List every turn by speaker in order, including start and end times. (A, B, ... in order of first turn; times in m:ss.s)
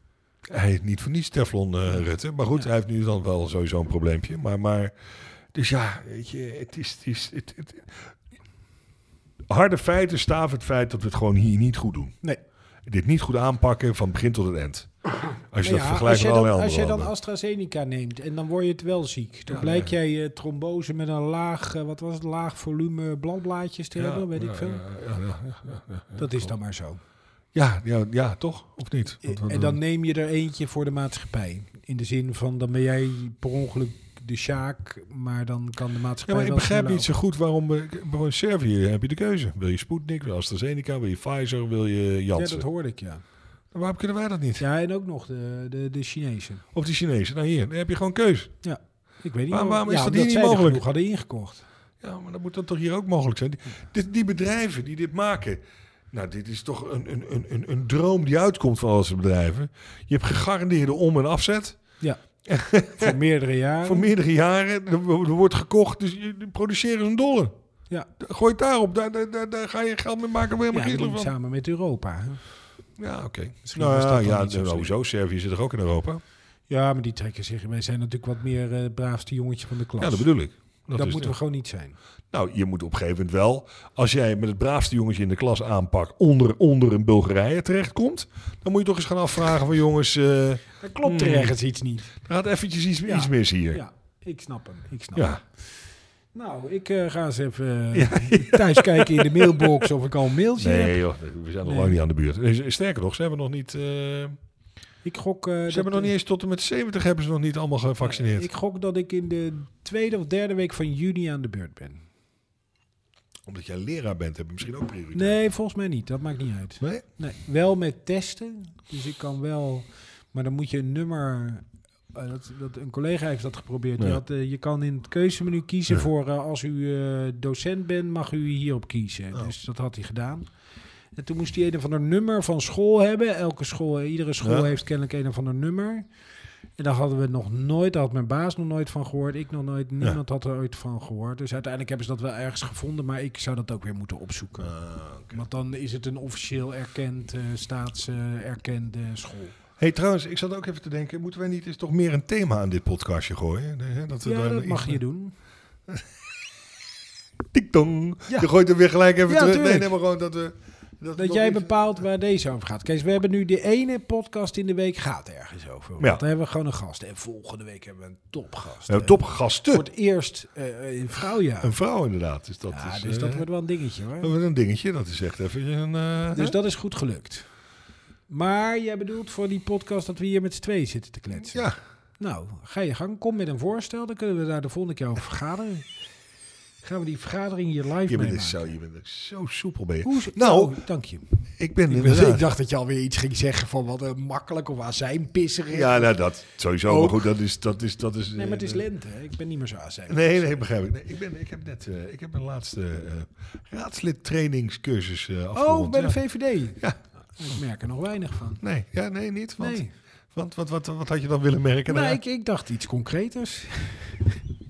0:00.5-0:04.9 A
0:05.5-0:08.1 A
0:09.5-0:12.1 A
0:12.8-0:17.1 A
0:15.6-0:24.8 B
0:19.5-0:19.9 A
0:24.0-0:26.5 A
0:26.2-0:27.0 B
0:27.5-0:29.8 A
0:29.2-0:37.1 B
0:36.3-0:42.6 A
0:42.3-0:43.2 B
0:43.7-0:44.6 A
0:44.6-0:46.6 B
0:46.7-0:48.5 A
0:48.6-0:51.6 B
0:49.5-0:50.8 A
0:52.0-1:01.8 A
1:02.4-1:03.2 A
1:02.9-1:04.1 B
1:03.8-1:07.5 A
1:08.2-1:11.3 A
1:10.7-1:12.4 B
1:13.0-1:16.2 A
1:13.6-1:14.9 B
1:16.7-1:20.3 B
1:20.0-1:21.3 A
1:20.9-1:22.0 B
1:22.3-1:31.5 A
1:30.8-1:32.1 B
1:32.2-1:33.8 A
1:33.0-1:35.3 B
1:35.1-1:35.4 A
1:36.3-1:41.0 B
1:37.9-1:39.8 A
1:40.6-1:44.4 A
1:41.6-1:42.0 B
1:45.0-1:46.1 B
1:45.7-1:48.5 A
1:48.0-1:52.0 B
1:53.4-1:55.4 A
1:55.1-2:10.5 B
2:11.1-2:16.1 B
2:14.4-2:14.7 A
2:16.8-2:24.7 B
2:24.6-2:25.4 A
2:25.3-2:29.6 B
2:29.8-2:35.0 A
2:34.2-2:35.3 B
2:37.5-2:41.7 A
2:39.2-2:39.9 B
2:41.1-2:49.2 B
2:48.9-2:49.8 A
2:49.7-2:51.7 B
2:51.6-2:53.4 A
2:52.7-2:54.3 B
2:54.2-2:56.6 A
2:56.3-2:57.5 B
2:58.3-3:01.6 B
3:01.4-3:01.8 A
3:02.2-3:05.9 B
3:06.8-3:08.7 B
3:08.1-3:10.8 A
3:10.0-3:16.2 B
3:11.6-3:12.4 A
3:15.7-3:18.8 A
3:16.8-3:17.3 B
3:18.3-3:20.5 B
3:20.1-3:26.2 A
3:25.5-3:28.6 B
3:28.6-3:29.8 A
3:29.6-3:29.9 B
3:30.3-3:32.2 A
3:31.8-3:34.4 B